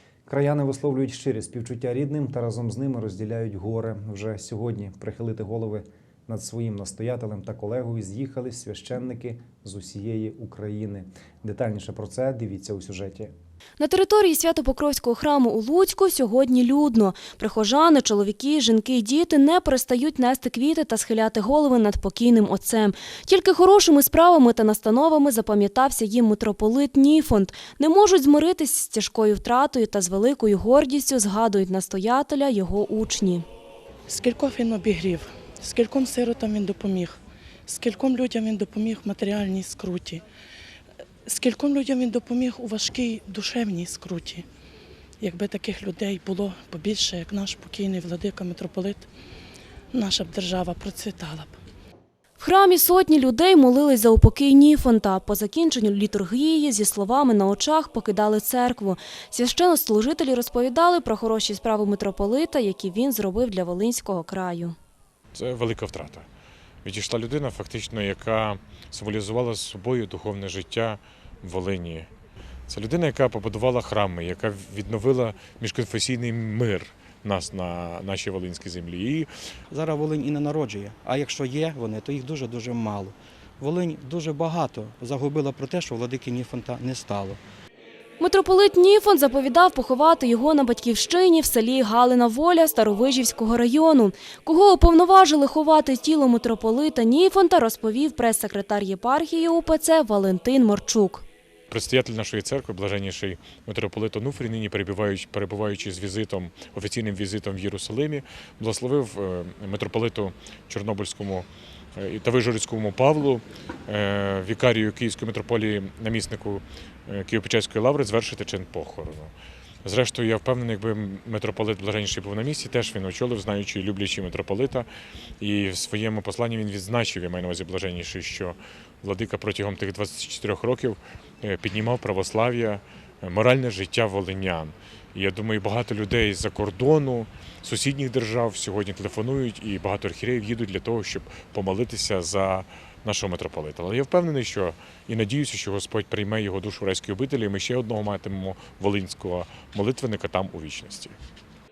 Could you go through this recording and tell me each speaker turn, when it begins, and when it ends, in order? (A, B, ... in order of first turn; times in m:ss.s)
0:00.3-0:13.3 A
0:13.8-0:33.4 B
0:34.1-0:40.2 C
0:41.3-0:44.5 C
0:45.2-0:49.1 C
0:49.9-0:51.6 C
0:52.4-1:04.8 B
1:05.3-1:06.3 D
1:06.8-1:12.1 D
1:12.7-1:19.3 D
1:19.7-1:27.4 E
1:28.2-1:41.2 B
1:41.7-1:59.3 D
1:59.8-2:04.9 D
2:05.4-2:31.2 D